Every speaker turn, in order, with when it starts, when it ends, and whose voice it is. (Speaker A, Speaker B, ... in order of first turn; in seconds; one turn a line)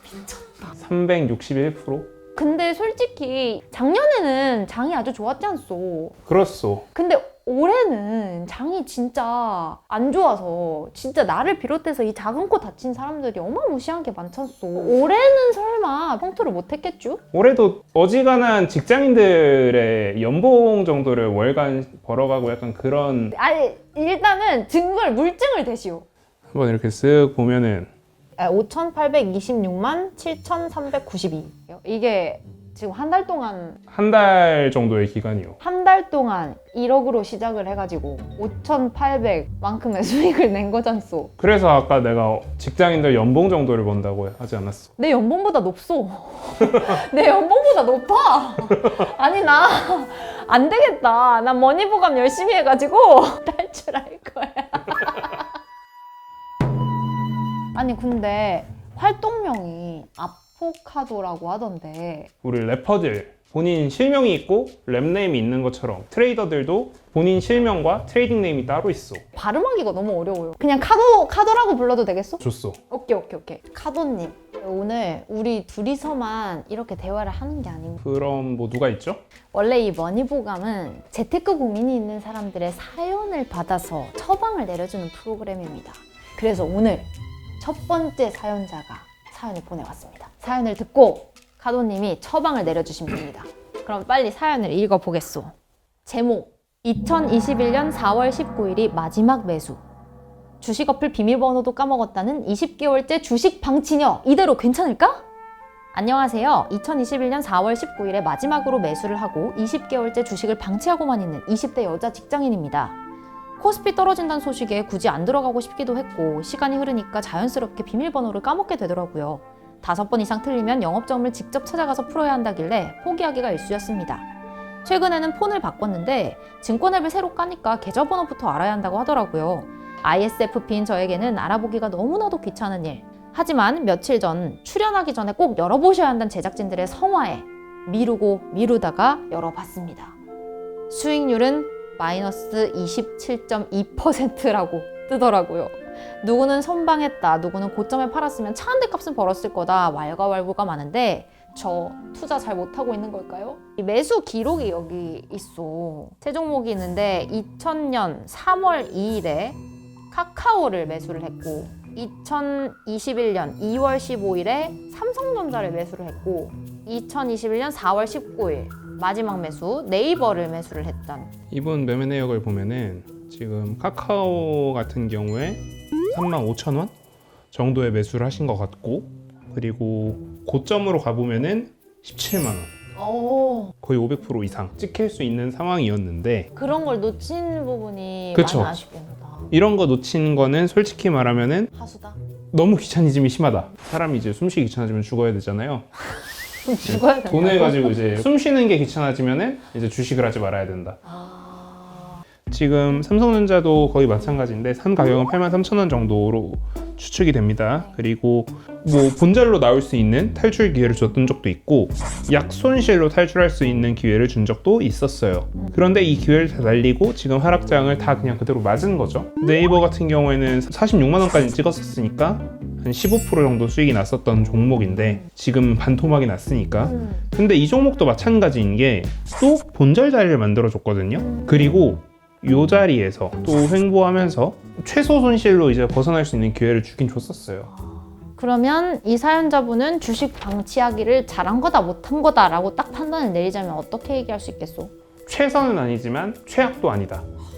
Speaker A: 0.8-2.1
Speaker B: 2.3-6.2
Speaker A: 6.3-6.8
Speaker B: 6.9-17.2
Speaker A: 17.3-23.3
Speaker B: 23.3-26.1
Speaker A: 26.5-27.9
Speaker B: 28.4-33.8
Speaker A: 33.9-35.6
Speaker B: 35.6-41.3
Speaker A: 41.4-44.9
Speaker B: 45.0-55.5
Speaker A: 46.7-46.9
Speaker B: 57.7-62.3
Speaker A: 62.4-69.2
Speaker B: 69.3-78.0
Speaker A: 72.4-72.8
Speaker A: 78.0-79.2
Speaker B: 79.5-87.1
Speaker B: 87.6-95.5
Speaker B: 96.1-99.8
Speaker B: 100.6-105.2
Speaker B: 105.9-113.0
Speaker B: 113.6-124.2
Speaker B: 124.8-140.2
Speaker B: 140.9-159.6
Speaker B: 160.1-171.3
Speaker A: 171.5-176.9
Speaker A: 177.5-182.7
Speaker B: 182.9-183.7
Speaker A: 183.8-186.5
Speaker B: 186.5-189.5
Speaker A: 188.3-188.8
Speaker A: 189.5-191.7
Speaker B: 191.7-192.2
Speaker A: 192.5-195.8
Speaker B: 196.6-198.2
Speaker A: 196.8-201.0
Speaker B: 201.1-202.2
Speaker A: 202.5-237.7
Speaker B: 226.8-227.2
Speaker B: 237.9-244.9
Speaker A: 245.2-247.2